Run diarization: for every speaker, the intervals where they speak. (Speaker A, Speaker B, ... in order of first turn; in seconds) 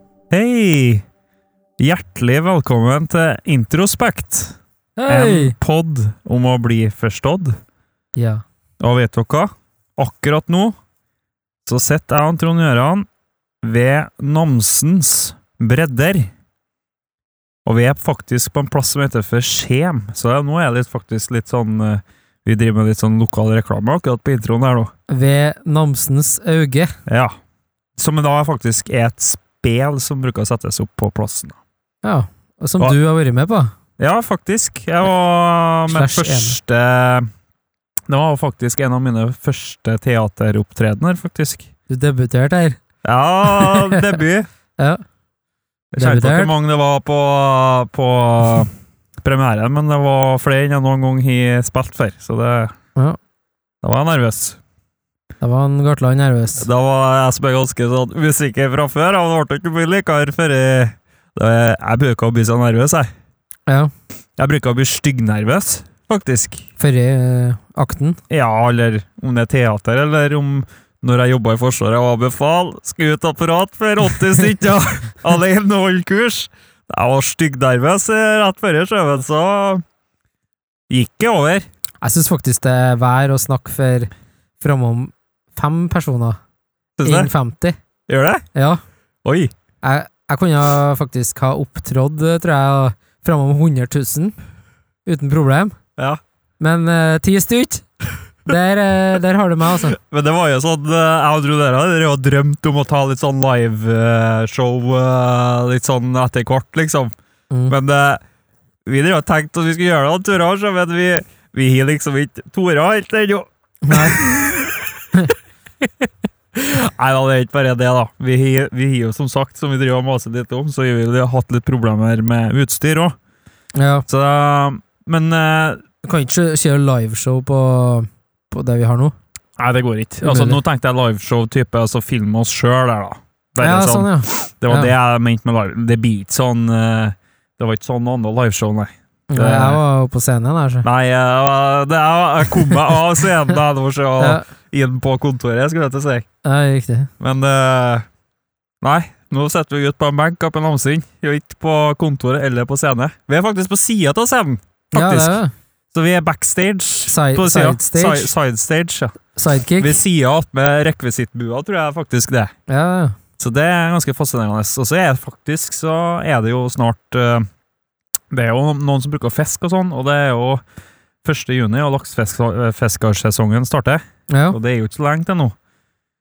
Speaker A: 0.3-1.0, 1.8-4.6, 5.1-7.6, 8.8-10.8, 11.7-13.1, 13.6-16.3, 17.6-24.9, 27.1-27.3, 28.0-31.6, 34.0-37.3, 38.1-41.6, 43.0-44.5, 45.9-48.7, 49.2-52.7, 53.8-54.6, 56.6-63.1, 64.4-66.7, 68.3-79.8, 80.9-81.7, 87.0-87.3, 88.1-88.4, 89.2-89.5, 100.0-107.1, 107.7-108.2, 108.8-114.8, 115.8-123.1, 124.1-125.8, 129.6-139.8, 140.8-146.2, 147.2-148.0, 148.8-155.4, 155.9-159.1, 159.8-162.5, 163.4-167.4, 168.3-170.6, 171.2-175.5
Speaker B: 5.0-5.5, 8.2-8.4, 25.1-26.9, 32.0-33.7, 35.9-36.5, 41.9-42.8, 43.5-44.1, 46.0-46.5, 55.4-56.6, 66.8-68.2, 82.0-86.4, 87.0-87.7, 88.5-88.8, 89.8-94.3, 95.0-95.8, 96.6-97.8, 98.4-100.0, 113.8-114.2, 123.8-124.0, 126.0-129.1, 130.2-130.6, 133.6-134.9, 139.3-140.8, 144.2-144.4, 146.4-147.1, 154.9-155.5, 157.1-158.3, 159.3-160.0, 162.7-163.2, 174.3-174.6